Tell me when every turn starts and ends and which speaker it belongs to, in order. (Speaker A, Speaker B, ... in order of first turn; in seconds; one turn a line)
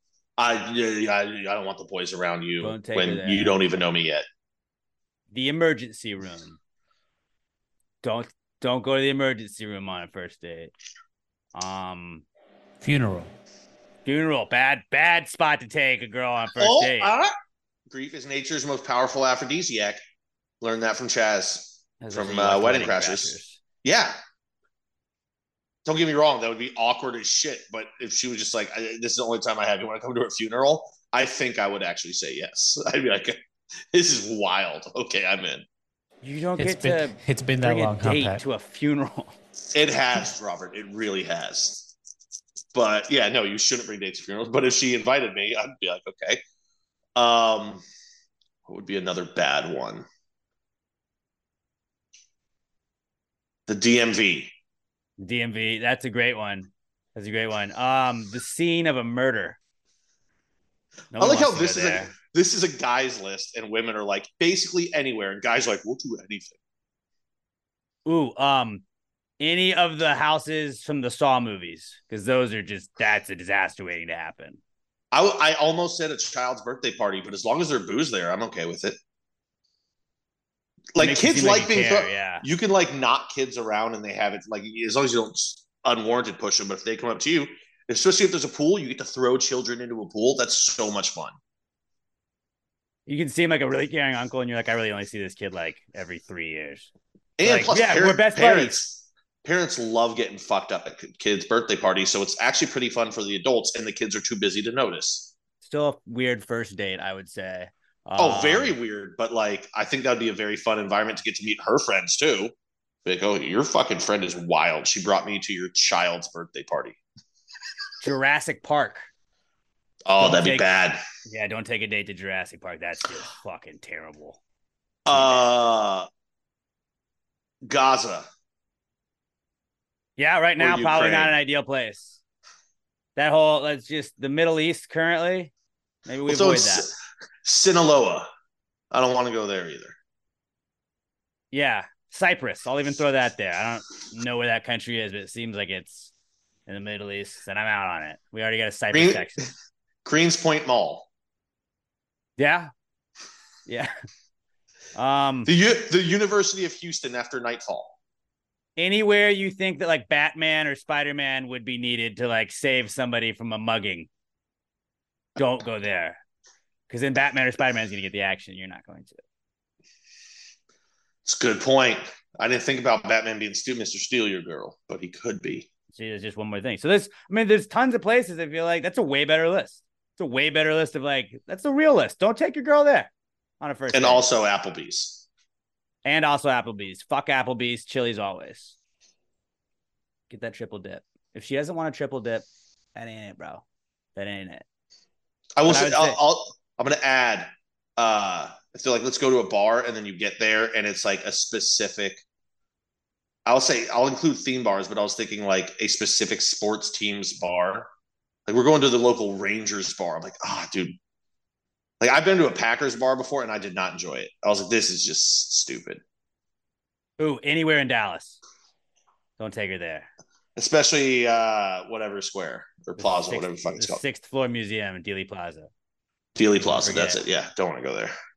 Speaker A: 0.4-4.2
Speaker B: 2.6-3.6
Speaker B: 5.3-6.6
Speaker B: 8.0-10.7
Speaker B: 11.6-12.2
Speaker C: 12.8-13.3
Speaker B: 14.1-17.1
Speaker A: 16.6-17.3
Speaker A: 17.9-20.0
Speaker A: 20.6-24.2
Speaker B: 22.0-23.6
Speaker A: 25.9-33.4
Speaker A: 33.9-35.6
Speaker B: 36.2-39.3
Speaker C: 36.6-38.4
Speaker A: 39.7-41.9
Speaker A: 42.7-46.4
Speaker A: 47.1-47.8
Speaker A: 48.7-50.0
Speaker A: 53.7-54.5
Speaker B: 55.2-59.6
Speaker B: 61.1-62.1
Speaker A: 61.2-66.6
Speaker B: 68.0-68.8
Speaker B: 69.4-74.6
Speaker A: 75.1-79.0
Speaker A: 80.9-91.4
Speaker B: 81.0-82.5
Speaker B: 93.1-96.9
Speaker A: 97.4-105.3
Speaker B: 97.4-98.8
Speaker B: 105.6-108.7
Speaker A: 108.2-112.5
Speaker A: 113.0-117.0
Speaker B: 118.0-119.1
Speaker A: 120.0-121.0
Speaker B: 120.2-120.7
Speaker B: 121.2-124.4
Speaker A: 125.1-126.1
Speaker B: 125.1-125.5
Speaker A: 127.6-128.3
Speaker B: 130.2-132.2
Speaker A: 130.6-131.4
Speaker B: 133.2-135.5
Speaker B: 136.1-136.9
Speaker A: 136.3-138.3
Speaker A: 138.9-139.9
Speaker B: 141.5-146.1
Speaker B: 146.7-149.5
Speaker A: 148.9-149.5
Speaker A: 150.1-151.1
Speaker B: 152.4-152.7
Speaker B: 154.9-155.5
Speaker A: 155.5-157.9
Speaker B: 158.8-164.1
Speaker B: 165.4-166.2
Speaker B: 166.9-169.2
Speaker A: 171.2-175.7
Speaker B: 175.9-183.1
Speaker B: 183.6-184.2
Speaker A: 183.9-185.2
Speaker B: 186.1-188.8
Speaker B: 190.3-193.6
Speaker B: 194.1-194.6
Speaker A: 195.6-202.2
Speaker B: 195.7-196.2
Speaker A: 203.4-207.9
Speaker A: 208.5-210.9
Speaker A: 212.0-216.0
Speaker B: 217.2-218.4
Speaker B: 219.4-220.1
Speaker A: 220.6-224.0
Speaker B: 223.0-225.7
Speaker A: 226.4-228.1
Speaker B: 226.6-227.2